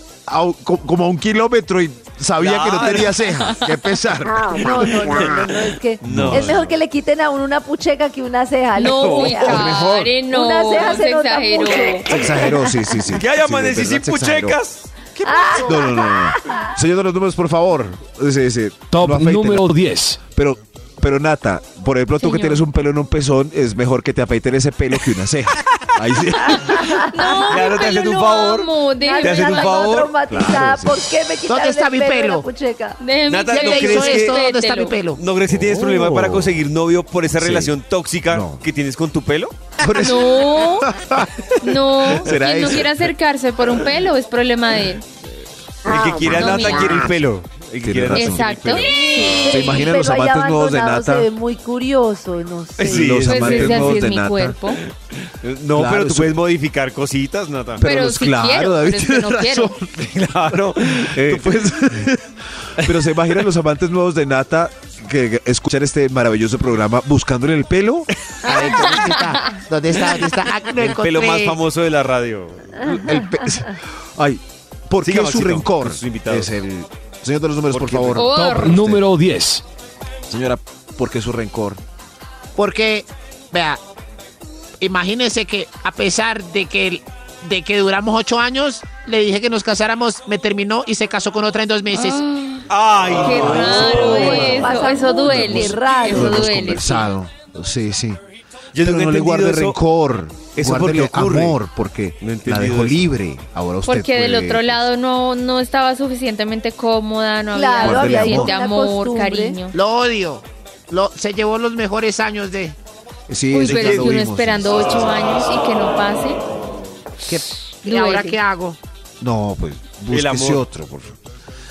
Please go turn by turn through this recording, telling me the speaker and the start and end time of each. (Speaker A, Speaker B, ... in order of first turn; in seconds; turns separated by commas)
Speaker A: 0.3-4.8, Speaker B: 2.4-3.2, Speaker C: 4.5-9.8, Speaker B: 4.6-5.4, Speaker B: 6.0-6.8, Speaker A: 6.0-6.6, Speaker D: 8.8-12.1, Speaker B: 9.0-9.3, Speaker A: 9.4-10.2, Speaker C: 10.3-12.8, Speaker A: 12.1-14.6, Speaker B: 13.1-16.1, Speaker C: 15.2-16.7, Speaker A: 15.6-19.7, Speaker E: 18.9-20.2, Speaker A: 20.3-27.0, Speaker D: 22.2-22.6, Speaker D: 26.5-30.0, Speaker C: 26.7-27.5, Speaker B: 27.5-30.5, Speaker C: 29.0-33.0, Speaker A: 30.3-31.1, Speaker F: 31.5-32.5, Speaker D: 33.0-35.0, Speaker B: 33.3-34.4, Speaker F: 33.5-35.2, Speaker B: 35.1-39.6, Speaker A: 35.5-36.5, Speaker E: 35.7-36.0, Speaker A: 37.4-37.8, Speaker A: 38.3-38.6, Speaker A: 39.8-41.3, Speaker D: 40.0-40.9, Speaker D: 41.6-45.1, Speaker A: 41.9-42.9, Speaker B: 45.9-49.7, Speaker D: 46.2-47.1, Speaker A: 47.8-48.5, Speaker D: 48.1-49.8, Speaker C: 49.0-53.1, Speaker A: 49.4-51.3, Speaker B: 52.8-54.0, Speaker A: 52.8-54.6, Speaker D: 53.2-54.8, Speaker B: 55.3-57.9, Speaker A: 55.7-56.4, Speaker A: 57.8-62.2, Speaker D: 57.8-59.8, Speaker B: 59.9-62.2, Speaker A: 62.8-68.1, Speaker F: 68.4-71.6, Speaker B: 70.8-72.8, Speaker A: 72.8-79.0, Speaker B: 75.0-76.6, Speaker B: 77.7-78.2, Speaker D: 78.2-78.8, Speaker E: 78.2-79.6, Speaker A: 80.3-81.8, Speaker F: 82.6-83.8, Speaker F: 84.8-92.2, Speaker D: 91.9-92.7, Speaker B: 92.7-94.7, Speaker D: 93.2-97.1, Speaker A: 93.3-94.4, Speaker C: 93.9-96.4, Speaker A: 95.3-98.2, Speaker B: 98.7-99.8, Speaker A: 98.8-104.8, Speaker B: 100.5-101.6, Speaker B: 102.2-103.0, Speaker D: 103.9-109.8, Speaker C: 107.5-109.6, Speaker A: 107.8-108.5, Speaker F: 109.7-112.8, Speaker A: 113.3-115.5, Speaker D: 113.5-116.4, Speaker B: 113.7-114.1, Speaker F: 117.3-118.8, Speaker D: 117.8-118.4, Speaker A: 119.2-121.2, Speaker B: 120.1-120.6